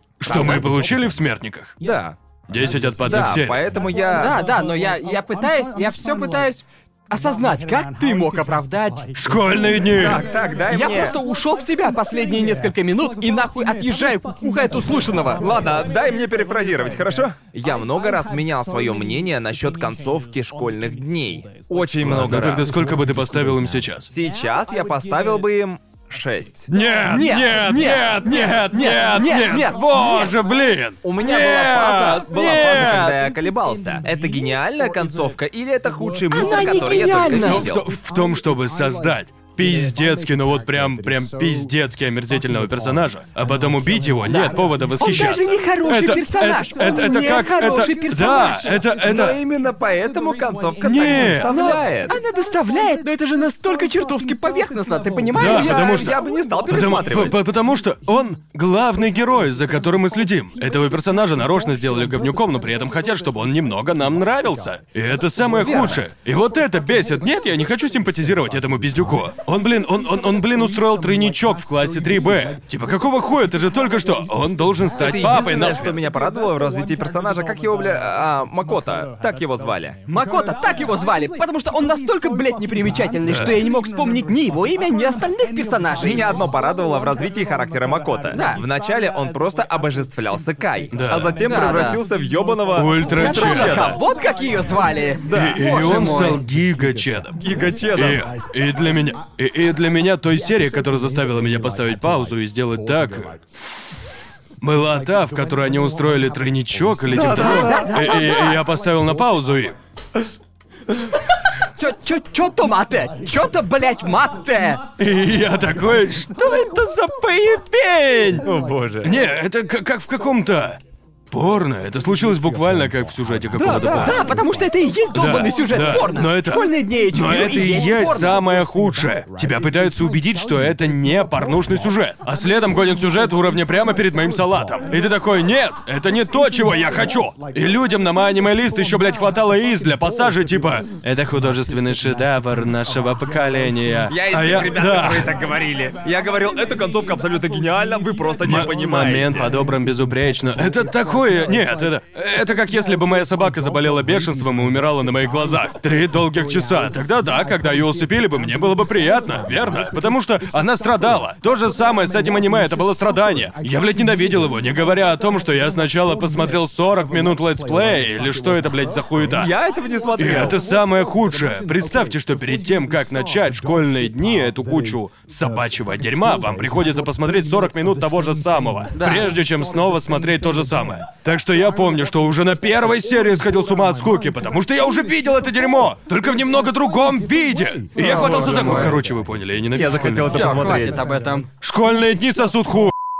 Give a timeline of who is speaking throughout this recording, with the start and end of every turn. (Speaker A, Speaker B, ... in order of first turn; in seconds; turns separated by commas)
Speaker A: 0.2-1.8, Speaker B: 0.2-0.7, Speaker B: 1.8-2.2, Speaker A: 2.5-3.6, Speaker B: 3.0-4.3, Speaker C: 4.2-9.1, Speaker A: 9.1-10.3, Speaker B: 9.9-11.2, Speaker C: 10.7-15.4, Speaker B: 15.4-22.7, Speaker A: 22.0-24.1, Speaker B: 24.1-26.7, Speaker A: 26.7-33.3, Speaker C: 27.1-30.3, Speaker B: 31.0-37.9, Speaker C: 36.3-37.7, Speaker A: 37.3-49.4, Speaker C: 44.3-48.8, Speaker B: 48.9-52.2, Speaker A: 50.8-51.5, Speaker C: 51.4-56.1, Speaker A: 55.3-76.0, Speaker B: 55.4-57.4, Speaker B: 65.6-66.0, Speaker B: 75.0-80.0, Speaker C: 80.1-86.3, Speaker A: 83.2-83.6, Speaker B: 86.0-94.0, Speaker C: 88.3-88.6, Speaker A: 90.9-91.3, Speaker C: 91.4-92.0, Speaker A: 92.7-94.0, Speaker C: 93.2-96.4, Speaker B: 95.2-95.6, Speaker A: 95.3-97.4, Speaker B: 97.4-98.2, Speaker A: 97.9-103.8, Speaker A: 104.6-109.8, Speaker B: 107.1-107.9, Speaker C: 107.3-108.6, Speaker C: 111.8-114.8, Speaker A: 115.0-118.5, Speaker B: 118.4-119.1, Speaker A: 119.0-120.8, Speaker A: 121.3-124.3, Speaker B: 123.5-124.2, Speaker C: 123.9-128.4, Speaker A: 125.1-145.3, Speaker B: 144.1-149.5, Speaker A: 148.4-169.5, Speaker B: 169.4-170.6, Speaker A: 170.2-190.8, Speaker C: 178.9-179.3, Speaker C: 188.0-188.9, Speaker B: 188.0-188.9, Speaker B: 189.7-191.0, Speaker C: 190.3-191.5, Speaker A: 191.6-192.9